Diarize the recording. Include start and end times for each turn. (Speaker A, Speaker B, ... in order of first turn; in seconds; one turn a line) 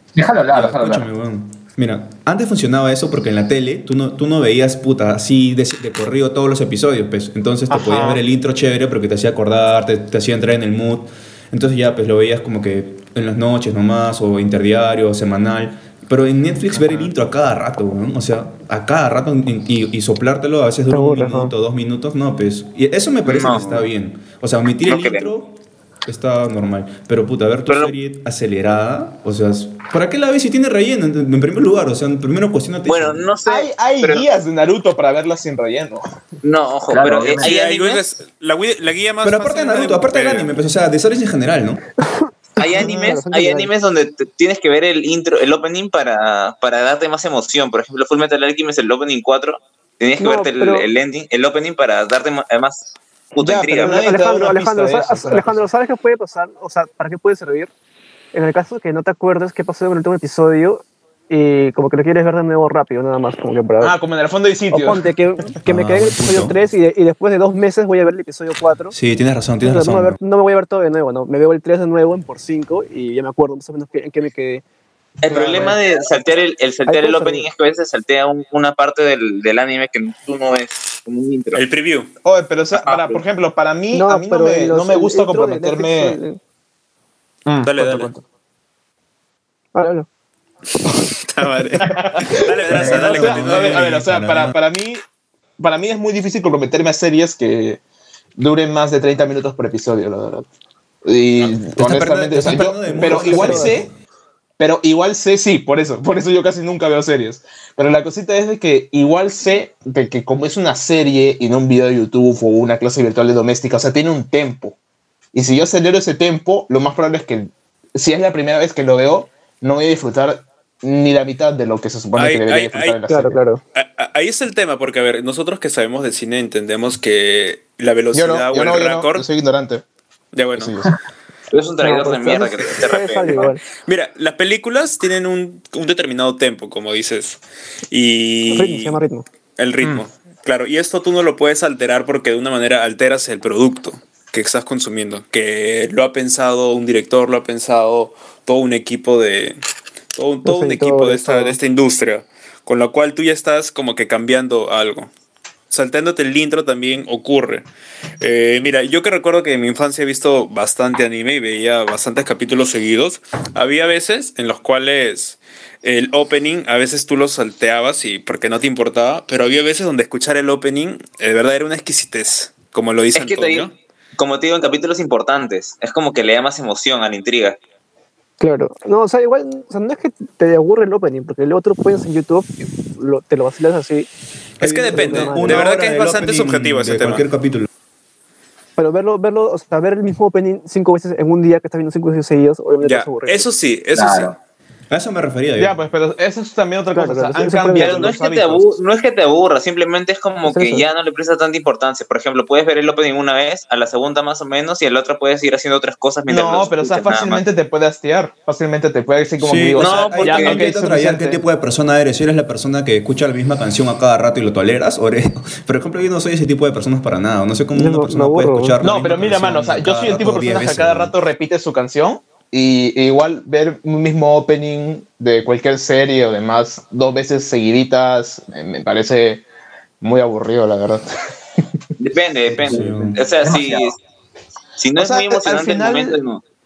Speaker A: 0.1-1.1
Speaker B: 0.5-33.3
Speaker C: 7.7-8.2
Speaker D: 20.9-21.5
Speaker E: 23.3-23.9
Speaker E: 24.9-25.3
Speaker E: 27.7-27.9
Speaker E: 32.9-34.3
Speaker C: 33.5-36.0
Speaker E: 36.4-38.0
Speaker A: 36.9-37.6
Speaker F: 37.4-40.5
Speaker B: 39.2-41.8
Speaker D: 42.1-43.7
Speaker E: 42.6-54.1
Speaker D: 50.2-50.9
Speaker C: 53.4-55.6
Speaker D: 53.7-57.7
Speaker D: 58.3-64.0
Speaker C: 63.8-65.1
Speaker D: 64.7-69.0
Speaker B: 65.7-66.6
Speaker B: 68.9-70.2
Speaker D: 69.6-74.6
Speaker E: 75.2-81.6
Speaker C: 75.3-75.8
Speaker D: 75.3-75.7
Speaker D: 76.9-77.5
Speaker F: 81.5-82.1
Speaker C: 82.2-86.2
Speaker E: 82.8-83.2
Speaker D: 83.9-86.4
Speaker C: 87.5-88.1
Speaker F: 87.6-88.1
Speaker D: 89.8-90.1
Speaker F: 90.9-94.0
Speaker C: 91.8-95.0
Speaker B: 92.7-94.6
Speaker C: 95.6-97.8
Speaker C: 98.4-100.5
Speaker C: 101.0-103.9
Speaker B: 101.4-103.9
Speaker D: 102.8-103.8
Speaker C: 104.6-114.8
Speaker C: 115.3-123.4
Speaker F: 122.2-123.0
Speaker D: 123.1-123.6
Speaker F: 123.7-129.3
Speaker C: 128.1-129.8
Speaker F: 130.3-130.8
Speaker C: 130.6-130.9
Speaker E: 131.5-133.5
Speaker D: 131.8-133.6
Speaker F: 133.9-139.0
Speaker D: 138.5-139.2
Speaker F: 139.6-149.6
Speaker F: 150.2-155.1
Speaker D: 150.4-151.6
Speaker F: 155.7-157.7
Speaker F: 158.2-173.7
Speaker E: 173.1-177.6
Speaker D: 178.4-184.1
Speaker F: 184.6-187.2
Speaker B: 184.6-187.7
Speaker D: 184.9-185.7
Speaker D: 188.8-193.5
Speaker F: 192.8-194.3
Speaker A: 193.9-194.4
Speaker B: 194.9-195.8
Speaker C: 195.6-198.8
Speaker D: 196.9-198.2
Speaker E: 197.8-207.4
Speaker D: 200.5-200.8
Speaker C: 206.3-211.4
Speaker B: 209.4-221.1
Speaker E: 209.8-210.7
Speaker D: 217.8-218.8
Speaker C: 218.8-229.4
Speaker C: 230.0-231.1
Speaker E: 232.0-234.0
Speaker B: 232.5-233.2
Speaker A: 232.7-233.9
Speaker E: 234.8-236.4
Speaker C: 234.9-236.2